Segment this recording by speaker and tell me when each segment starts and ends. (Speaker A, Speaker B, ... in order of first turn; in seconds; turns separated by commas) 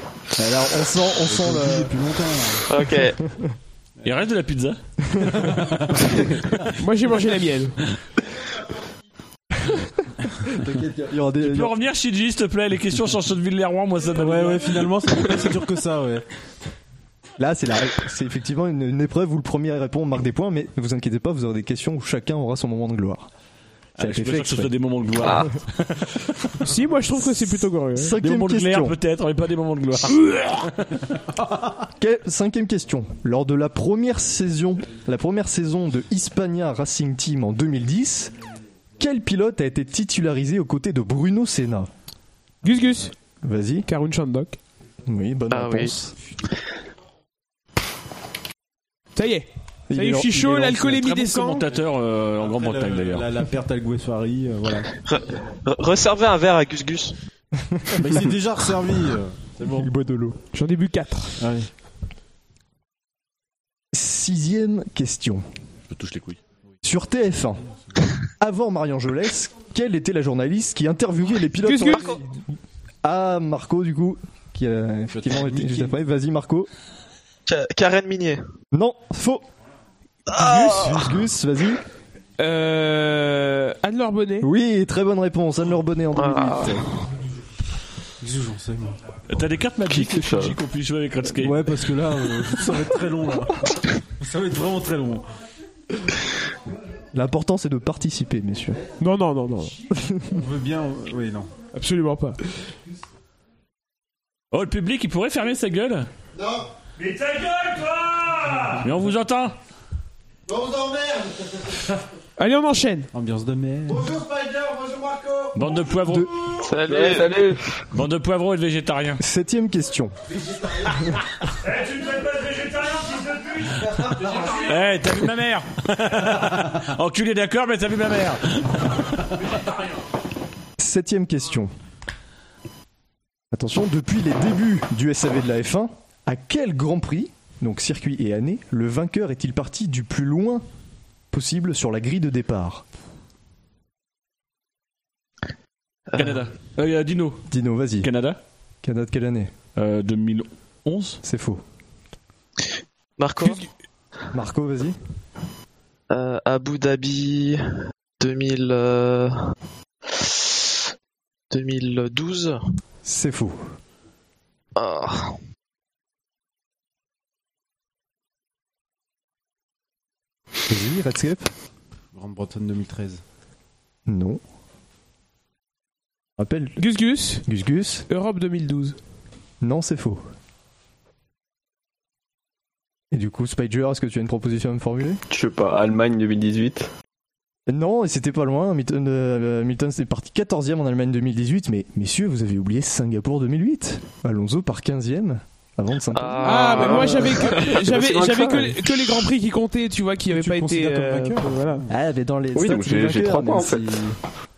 Speaker A: 0.4-2.0, Speaker B: 1.2-2.7, Speaker C: 2.7-3.2, Speaker A: 3.2-3.5, Speaker D: 4.0-5.6, Speaker A: 5.1-5.3, Speaker B: 5.4-6.6, Speaker E: 6.7-7.8, Speaker A: 9.6-11.7, Speaker D: 11.4-14.9, Speaker B: 14.2-16.2, Speaker A: 17.4-23.3, Speaker D: 24.0-26.3, Speaker A: 24.0-24.7, Speaker C: 25.2-25.5, Speaker E: 26.6-28.1, Speaker A: 27.2-29.0, Speaker D: 28.2-31.0, Speaker A: 32.0-38.3, Speaker A: 39.0-41.9, Speaker E: 42.6-43.1, Speaker A: 43.4-43.9, Speaker E: 43.9-44.6, Speaker A: 45.1-46.1, Speaker C: 45.5-45.9, Speaker E: 49.1-51.7, Speaker A: 49.9-50.4, Speaker B: 50.2-51.8, Speaker D: 51.6-53.3, Speaker B: 52.4-55.0, Speaker C: 55.1-57.1, Speaker A: 57.6-58.3, Speaker B: 58.0-59.9, Speaker A: 59.6-60.4, Speaker E: 60.5-61.4, Speaker B: 61.4-61.7, Speaker A: 63.9-65.4, Speaker D: 65.9-66.4, Speaker A: 66.8-67.6, Speaker A: 68.4-76.7, Speaker E: 71.6-72.0, Speaker C: 71.8-72.2, Speaker B: 75.1-76.0, Speaker C: 77.5-78.5, Speaker A: 78.7-79.4, Speaker C: 80.3-81.0, Speaker A: 80.5-81.8, Speaker E: 82.4-84.5, Speaker A: 84.4-86.9, Speaker C: 86.1-86.9, Speaker B: 88.2-89.0, Speaker D: 89.3-91.8, Speaker F: 89.9-90.6, Speaker B: 91.4-95.2, Speaker A: 97.1-98.8, Speaker E: 99.0-99.8, Speaker A: 99.9-100.4, Speaker B: 100.3-101.5, Speaker E: 101.7-102.4, Speaker D: 104.5-106.1, Speaker D: 107.0-109.5, Speaker E: 112.4-113.1, Speaker B: 113.1-114.5, Speaker D: 115.5-116.3, Speaker C: 116.6-117.6, Speaker F: 116.7-117.6, Speaker D: 117.9-119.2, Speaker A: 119.2-120.1, Speaker A: 120.8-121.1, Speaker D: 121.6-129.4, Speaker A: 130.8-131.7, Speaker A: 133.5-140.6, Speaker A: 141.3-142.8, Speaker D: 146.1-147.4, Speaker A: 147.5-148.1, Speaker D: 148.0-148.4, Speaker A: 148.8-149.5, Speaker D: 149.8-151.2, Speaker A: 151.2-151.6, Speaker C: 153.2-153.6, Speaker E: 153.4-153.7, Speaker A: 154.3-154.9, Speaker C: 156.1-159.5, Speaker C: 160.1-160.8, Speaker C: 161.5-162.6, Speaker A: 163.0-163.7, Speaker C: 164.8-165.4, Speaker A: 170.7-171.5, Speaker B: 172.1-173.2, Speaker A: 174.1-174.4, Speaker A: 176.4-176.8, Speaker E: 176.8-177.4, Speaker A: 177.4-178.1, Speaker E: 178.1-179.0, Speaker A: 179.6-180.2, Speaker A: 183.1-185.2, Speaker F: 185.3-186.9, Speaker A: 187.7-197.3, Speaker C: 196.1-197.4, Speaker E: 196.4-201.8, Speaker F: 196.9-198.7, Speaker B: 200.3-201.9, Speaker A: 201.9-204.0, Speaker F: 202.5-204.0